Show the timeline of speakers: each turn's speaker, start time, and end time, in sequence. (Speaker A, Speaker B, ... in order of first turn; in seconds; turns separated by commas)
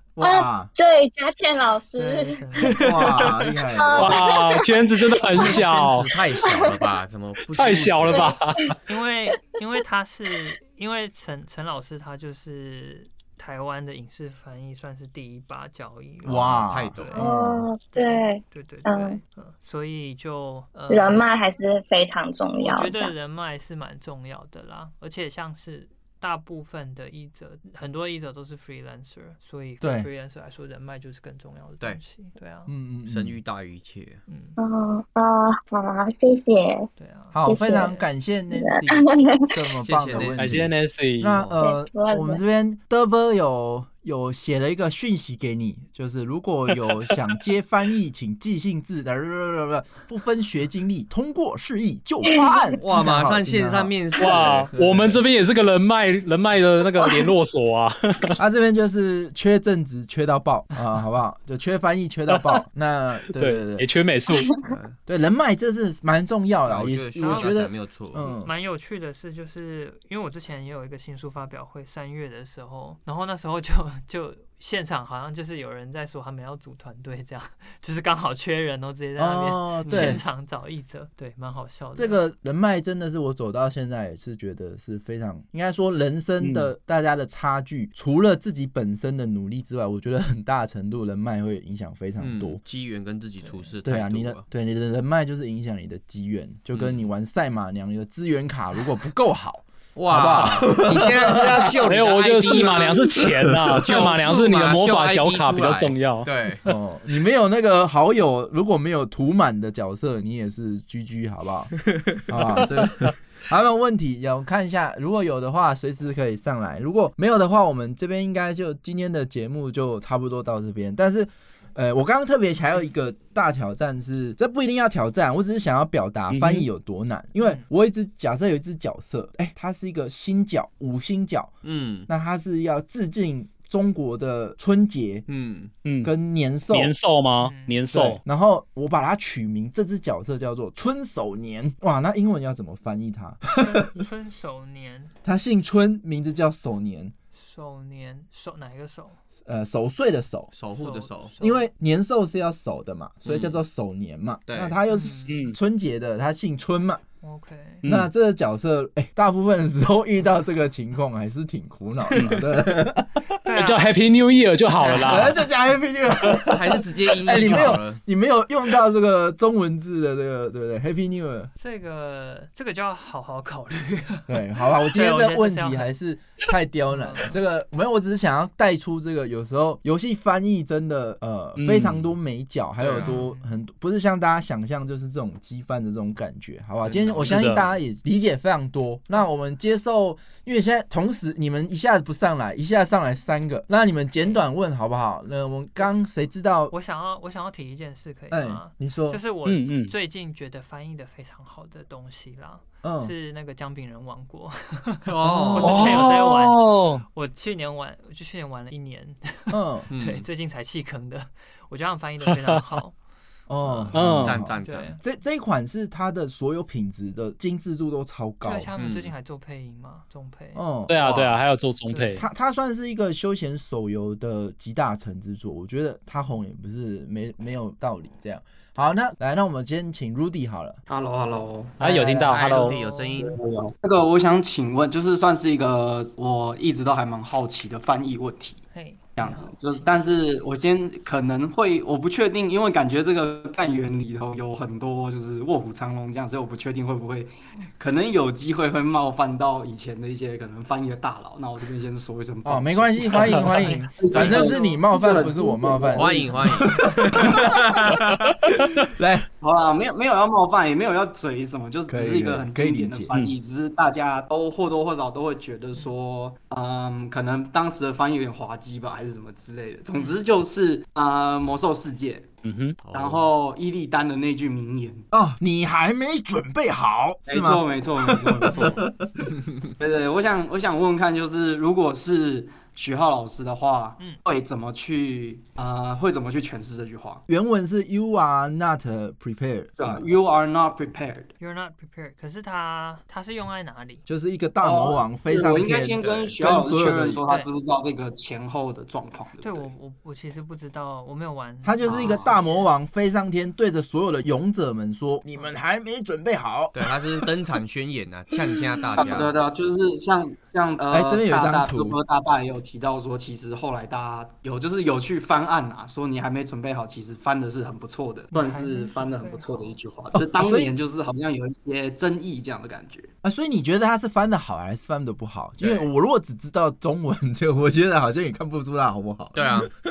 Speaker A: 0.1-0.7, Speaker B: 0.2-2.5, Speaker C: 2.0-3.0, Speaker A: 2.8-4.2, Speaker B: 3.7-5.5, Speaker D: 4.0-6.1, Speaker E: 5.4-8.3, Speaker D: 7.5-8.7, Speaker C: 8.9-17.3, Speaker A: 16.2-17.7, Speaker E: 16.3-17.2, Speaker B: 17.2-19.2, Speaker C: 17.9-21.3, Speaker B: 20.9-23.1, Speaker C: 22.6-32.7, Speaker A: 29.8-30.1, Speaker A: 32.7-33.4, Speaker E: 33.0-34.2, Speaker C: 34.3-34.6, Speaker B: 34.6-36.9, Speaker C: 37.0-37.4, Speaker A: 37.3-54.4, Speaker B: 37.4-38.0, Speaker B: 38.5-39.5, Speaker E: 39.8-40.7, Speaker D: 40.4-41.4, Speaker B: 41.6-42.4, Speaker E: 52.8-55.2, Speaker D: 54.2-58.4, Speaker A: 58.4-63.9, Speaker D: 62.3-62.6, Speaker D: 63.3-64.5, Speaker E: 64.6-65.0, Speaker A: 65.0-68.5, Speaker E: 66.7-68.3, Speaker C: 67.2-67.6, Speaker C: 68.2-82.3, Speaker A: 79.2-80.2, Speaker E: 79.9-80.2, Speaker A: 82.0-92.6, Speaker D: 86.4-86.7, Speaker E: 92.2-94.4, Speaker A: 93.8-101.7, Speaker E: 96.7-97.1, Speaker E: 99.9-106.6, Speaker D: 101.8-106.7, Speaker A: 106.7-131.6, Speaker D: 126.3-126.7, Speaker C: 127.4-127.7, Speaker E: 131.6-132.1, Speaker A: 132.1-135.3, Speaker E: 135.3-135.7, Speaker D: 135.8-136.1, Speaker A: 136.0-136.9, Speaker D: 136.7-138.2, Speaker C: 137.4-137.8, Speaker A: 137.9-143.9, Speaker C: 143.5-145.1, Speaker A: 145.2-147.1, Speaker C: 147.3-149.2, Speaker A: 149.4-150.5, Speaker E: 150.5-151.3, Speaker C: 150.7-151.7, Speaker A: 151.4-157.0, Speaker E: 153.2-153.6, Speaker E: 154.5-154.7, Speaker C: 154.9-155.3, Speaker D: 155.3-155.6, Speaker C: 157.2-157.8, Speaker D: 157.8-158.1, Speaker A: 157.8-163.2, Speaker D: 162.1-162.4, Speaker C: 163.4-164.0, Speaker D: 163.5-165.4, Speaker C: 164.7-165.4, Speaker A: 165.1-171.5, Speaker E: 166.3-168.0, Speaker C: 171.6-175.9, Speaker A: 174.3-196.7, Speaker C: 176.9-177.4, Speaker D: 181.6-182.1, Speaker E: 182.8-183.1, Speaker C: 183.0-183.5, Speaker E: 186.8-187.7, Speaker D: 187.3-187.6, Speaker C: 196.7-212.9, Speaker A: 198.3-199.2, Speaker D: 199.4-199.9, Speaker A: 202.8-203.1, Speaker E: 205.1-206.0, Speaker A: 205.2-206.2, Speaker D: 205.6-207.1, Speaker A: 209.5-209.9, Speaker E: 209.9-210.3, Speaker D: 212.3-212.6, Speaker A: 213.5-218.7, Speaker C: 213.6-213.9, Speaker D: 213.9-214.4, Speaker E: 214.1-214.9, Speaker C: 214.6-215.0, Speaker C: 218.4-220.6, Speaker E: 218.8-219.1, Speaker A: 220.6-221.2, Speaker D: 220.9-222.2, Speaker C: 221.9-222.2, Speaker A: 222.2-230.8, Speaker F: 230.9-232.6, Speaker D: 231.8-232.7, Speaker E: 232.2-233.4, Speaker C: 232.7-233.2, Speaker F: 233.2-238.6, Speaker C: 238.7-240.0, Speaker F: 239.2-256.8, Speaker A: 252.4-259.3, Speaker C: 253.5-254.8, Speaker E: 255.9-258.3, Speaker F: 259.4-272.3, Speaker A: 261.9-263.1, Speaker C: 269.9-270.2, Speaker D: 272.4-272.8, Speaker E: 272.8-273.3, Speaker F: 272.9-275.1, Speaker A: 275.1-279.1, Speaker F: 277.3-278.9, Speaker C: 278.5-278.9, Speaker F: 279.8-287.2, Speaker A: 287.3-290.1, Speaker F: 289.8-291.3, Speaker C: 291.4-294.1, Speaker A: 294.1-297.2, Speaker F: 294.6-299.7, Speaker E: 296.0-296.4, Speaker C: 299.4-302.7, Speaker A: 301.6-307.3, Speaker F: 301.9-302.3, Speaker E: 306.7-309.4, Speaker F: 309.0-323.1, Speaker A: 310.9-312.0, Speaker C: 318.3-319.7, Speaker A: 320.2-320.7, Speaker A: 323.2-329.7, Speaker E: 325.6-325.9, Speaker E: 329.3-329.7